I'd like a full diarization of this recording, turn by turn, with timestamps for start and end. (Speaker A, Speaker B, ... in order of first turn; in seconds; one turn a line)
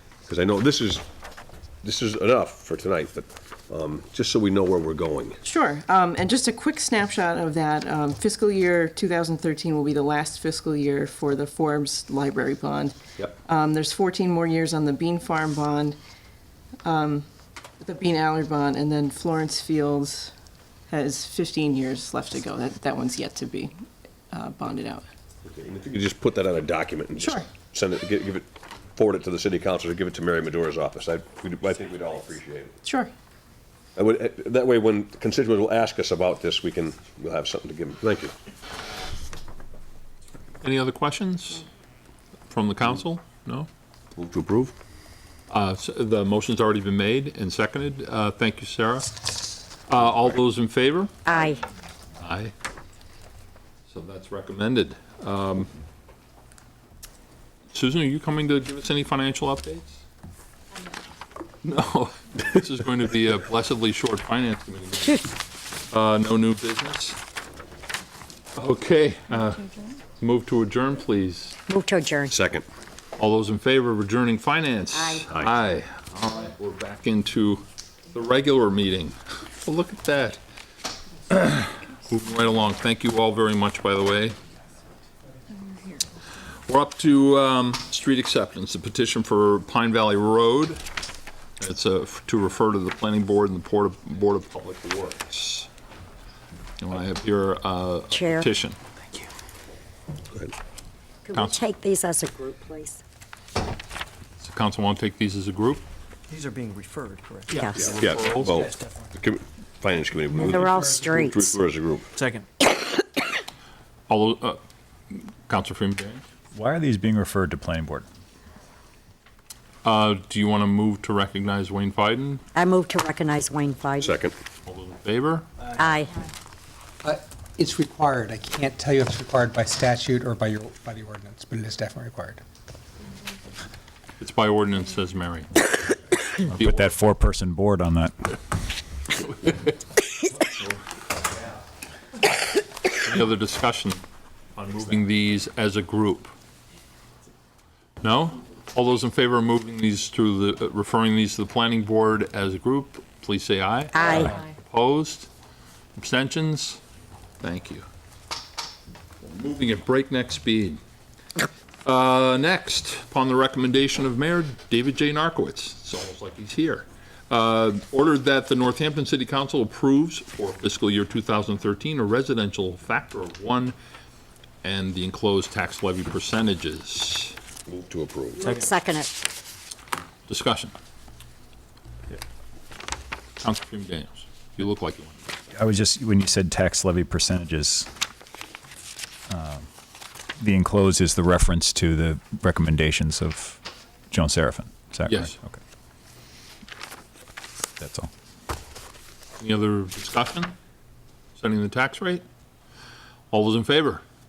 Speaker A: 0.3-1.0
Speaker A: 1.8-5.4
Speaker B: 5.4-16.0
Speaker B: 16.8-17.3
Speaker B: 17.8-20.3
Speaker B: 20.9-23.7
Speaker B: 24.3-25.0
Speaker A: 25.4-32.8
Speaker B: 27.1-27.5
Speaker B: 32.8-33.1
Speaker A: 34.0-38.3
Speaker C: 40.6-41.7
Speaker C: 42.5-43.7
Speaker A: 44.2-44.7
Speaker C: 45.5-49.2
Speaker C: 49.9-51.2
Speaker D: 51.2-51.6
Speaker C: 52.2-52.5
Speaker C: 53.9-55.7
Speaker C: 57.7-60.0
Speaker C: 61.6-65.3
Speaker C: 65.9-67.2
Speaker C: 68.5-71.6
Speaker D: 71.7-72.3
Speaker A: 72.3-72.7
Speaker C: 73.2-80.4
Speaker D: 74.9-75.3
Speaker C: 81.3-84.4
Speaker C: 86.7-90.8
Speaker C: 91.6-95.7
Speaker C: 96.8-98.8
Speaker D: 98.1-98.5
Speaker D: 101.2-103.0
Speaker C: 101.3-101.6
Speaker C: 104.4-105.8
Speaker E: 106.3-109.0
Speaker A: 107.7-112.1
Speaker C: 107.9-108.6
Speaker D: 110.4-111.5
Speaker E: 112.2-112.4
Speaker C: 114.1-116.2
Speaker F: 116.5-118.0
Speaker C: 119.8-122.4
Speaker D: 122.5-124.2
Speaker A: 124.0-124.3
Speaker C: 124.6-125.5
Speaker D: 125.8-126.1
Speaker G: 127.0-132.4
Speaker C: 134.2-135.8
Speaker C: 136.3-137.1
Speaker F: 136.5-138.3
Speaker C: 143.0-144.0
Speaker C: 144.5-146.3
Speaker C: 148.0-155.3
Speaker D: 153.9-154.3
Speaker C: 155.9-156.8
Speaker C: 157.4-157.8
Speaker C: 159.2-160.8
Speaker C: 161.8-173.8
Speaker C: 174.6-177.3
Speaker A: 177.7-178.5
Speaker D: 178.3-179.1
Speaker C: 180.3-180.7
Speaker C: 183.4-185.3
Speaker F: 185.5-187.9
Speaker F: 189.3-189.7
Speaker F: 190.4-195.6
Speaker C: 195.0-195.3
Speaker F: 197.8-198.1
Speaker C: 199.4-200.5
Speaker C: 201.3-202.2
Speaker C: 203.3-204.0